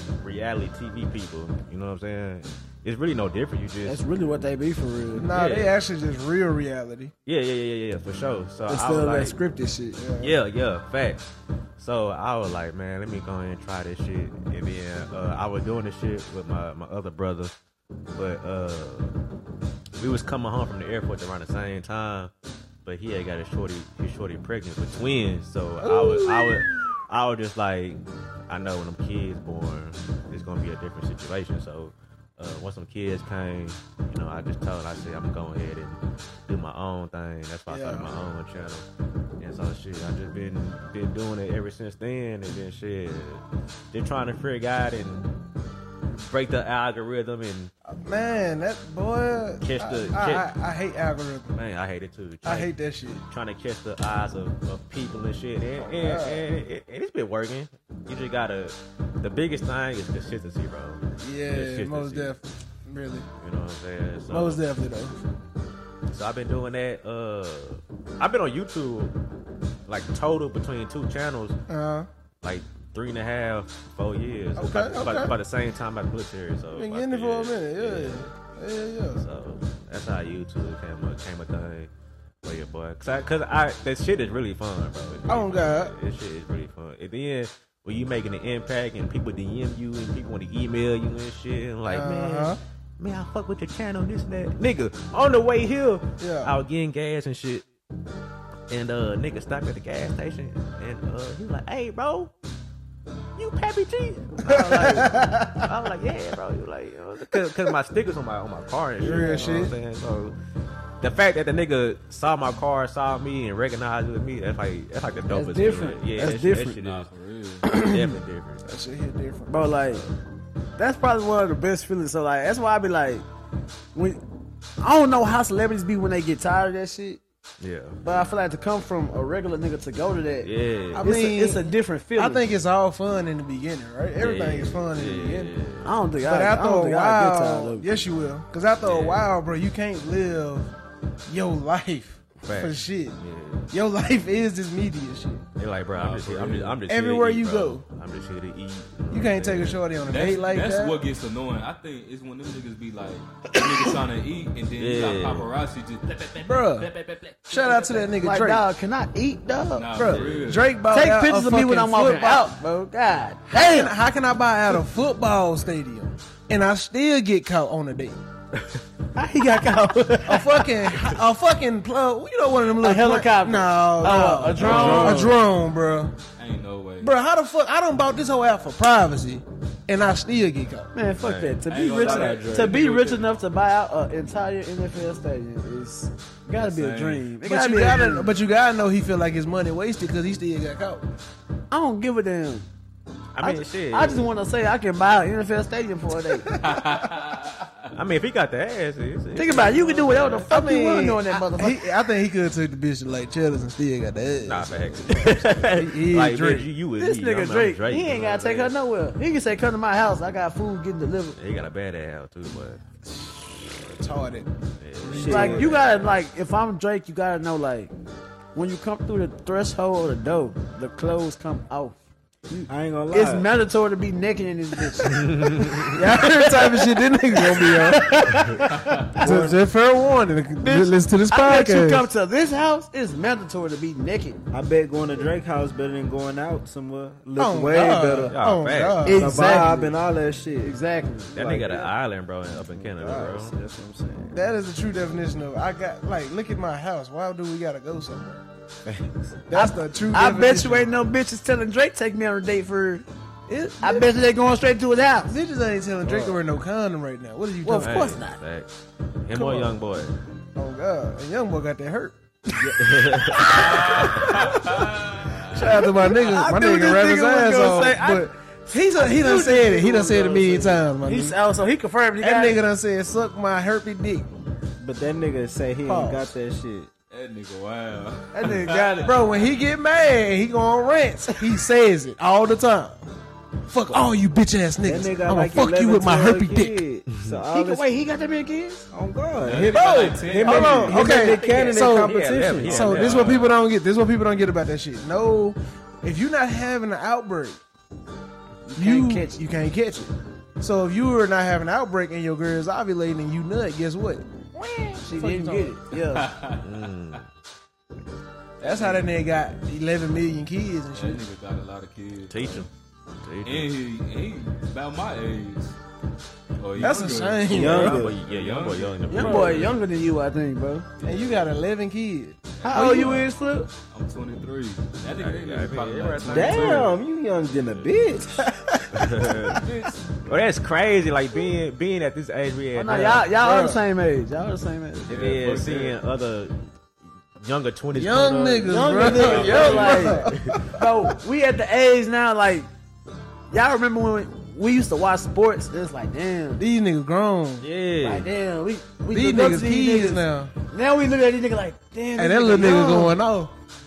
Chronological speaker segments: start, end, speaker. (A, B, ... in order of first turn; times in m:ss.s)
0:00.2-0:04.0 A
0:03.8-0:05.3 B
0:05.1-0:07.1 C
0:05.3-0:05.7 A
0:07.2-0:09.4 A
0:08.7-0:10.0 B
0:09.9-0:10.3 C
0:10.2-0:17.5 A
0:18.1-0:19.1 A
0:20.0-0:22.3 A
0:22.8-0:38.8 A
0:25.8-0:26.7 C
0:37.7-0:38.1 C
0:39.4-0:45.3 A
0:46.2-0:47.7 A
0:47.9-0:51.6 C
0:49.6-0:50.5 A
0:51.5-0:52.7 A
0:52.4-0:53.2 C
0:53.3-1:02.3 A
0:55.8-0:56.4 C
1:01.2-1:03.3 C
1:03.4-1:04.6 A
1:04.3-1:05.2 C
1:06.1-1:09.1 A
1:09.9-1:11.6 A
1:11.7-1:12.1 C
1:12.4-1:18.3 A
1:14.6-1:15.3 C
1:16.7-1:19.2 C
1:19.2-1:21.9 A
1:22.4-1:37.6 A
1:25.3-1:25.9 C
1:31.8-1:32.6 C
1:36.2-1:36.5 C
1:38.7-1:42.3 A
1:43.4-1:50.3 A
1:44.4-1:45.7 C
1:44.4-1:45.2 B
1:49.0-1:49.7 C
1:49.0-1:49.6 B
1:51.0-1:57.1 A
1:55.3-1:56.8 B
1:56.7-1:57.7 D
1:57.6-1:58.6 A
1:58.6-1:59.8 C
1:59.5-2:00.0 B
2:00.8-2:03.2 B
2:03.9-2:04.2 B
2:04.8-2:07.2 B
2:07.6-2:08.0 A
2:08.0-2:10.5 B
2:10.4-2:11.1 A
2:10.9-2:15.5 C
2:11.0-2:12.4 B
2:14.2-2:16.0 A
2:15.8-2:17.9 B
2:16.2-2:20.7 C
2:18.8-2:19.2 A
2:21.3-2:23.2 C
2:22.4-2:23.7 A
2:23.7-2:25.4 C
2:25.6-2:29.8 A
2:25.9-2:26.8 D
2:26.9-2:27.8 C
2:29.1-2:31.0 C
2:30.1-2:37.9 D
2:34.8-2:35.5 A
2:36.4-2:36.9 C
2:37.5-2:38.6 C
2:37.7-2:40.0 B
2:39.7-2:40.7 D
2:39.9-2:42.5 C
2:40.1-2:40.5 A
2:40.8-2:43.9 B
2:43.5-2:48.2 C
2:48.5-2:48.8 A
2:49.1-2:50.8 B
2:50.2-2:56.2 C
2:52.8-2:55.3 B
2:54.6-2:55.4 E
2:54.6-2:55.3 D
2:56.4-2:57.1 D
2:57.0-3:00.9 C
3:00.9-3:08.3 B
3:01.2-3:01.6 A
3:01.6-3:03.3 D
3:01.8-3:02.8 E
3:06.5-3:07.3 D
3:07.4-3:11.0 C
3:11.7-3:12.7 B
3:13.3-3:14.3 A
3:13.4-3:16.5 B
3:16.5-3:16.8 C
3:16.5-3:17.9 D
3:17.9-3:20.5 A
3:19.4-3:21.8 B
3:20.5-3:26.7 C
3:24.4-3:28.7 A
3:27.0-3:31.4 B
3:31.4-3:32.8 A
3:33.1-3:34.5 C
3:34.8-3:36.1 A
3:35.0-3:35.8 C
3:35.1-3:35.7 E
3:35.2-3:37.9 B
3:38.5-3:49.3 B
3:42.7-3:43.5 E
3:45.0-3:46.0 A
3:45.8-3:48.7 C
3:48.7-3:49.1 D
3:49.2-3:49.6 E
3:49.2-3:52.0 C
3:50.6-3:54.4 B
3:54.5-3:58.3 E
3:57.4-3:59.6 C
3:58.3-3:59.0 A
3:59.0-4:00.0 B
3:59.1-4:00.8 E
4:00.6-4:01.3 B
4:01.3-4:03.5 A
4:01.3-4:01.9 E
4:02.6-4:04.4 E
4:04.3-4:08.4 C
4:08.8-4:09.3 E
4:09.5-4:10.9 C
4:09.5-4:13.0 B
4:13.5-4:14.1 C
4:13.8-4:15.4 B
4:15.3-4:18.1 C
4:16.0-4:16.4 E
4:17.6-4:18.4 B
4:17.8-4:18.7 A
4:19.2-4:20.2 A
4:19.3-4:19.7 C
4:20.6-4:22.1 C
4:22.7-4:23.6 A
4:23.3-4:24.4 B
4:23.4-4:25.8 D
4:25.4-4:31.4 C
4:25.8-4:28.3 B
4:28.9-4:32.6 B
4:32.2-4:34.3 C
4:34.8-4:36.9 E
4:35.8-4:36.3 C
4:37.1-4:39.2 D
4:38.3-4:39.1 B
4:39.0-4:43.0 C
4:43.7-4:46.8 C
4:44.8-4:47.9 E
4:47.5-4:48.8 B
4:48.9-4:52.8 E
4:49.4-4:50.9 D
4:49.7-4:57.6 C
4:50.9-4:51.8 B
4:51.4-4:53.5 A
4:52.7-4:53.5 D
4:58.7-4:59.4 B
4:58.8-5:05.7 C
5:05.0-5:06.3 B
5:05.9-5:07.2 D
5:06.6-5:07.2 A
5:08.6-5:09.1 D
5:08.6-5:11.2 C
5:10.9-5:12.7 D
5:12.3-5:12.7 A
5:13.2-5:13.7 A
5:13.4-5:15.8 D
5:16.6-5:19.7 D
5:16.8-5:18.0 C
5:17.5-5:18.2 E
5:17.6-5:19.8 A
5:19.1-5:20.9 B
5:21.0-5:21.4 D
5:21.0-5:23.2 C
5:22.6-5:23.3 D
5:22.6-5:23.7 B
5:23.8-5:27.0 D
5:25.1-5:27.0 A
5:26.2-5:28.5 E
5:28.5-5:29.6 C
5:28.9-5:29.6 A
5:29.6-5:30.2 D
5:30.3-5:33.3 A
5:32.8-5:35.1 B
5:33.3-5:33.8 C
5:35.1-5:36.7 A
5:35.1-5:36.0 D
5:37.4-5:40.7 A
5:37.9-5:40.4 C
5:38.6-5:42.7 B
5:39.1-5:40.2 D
5:43.5-5:46.6 B
5:46.6-5:47.6 C
5:47.6-5:48.3 A
5:48.0-5:53.1 B
5:49.1-5:50.5 C
5:52.2-5:53.5 C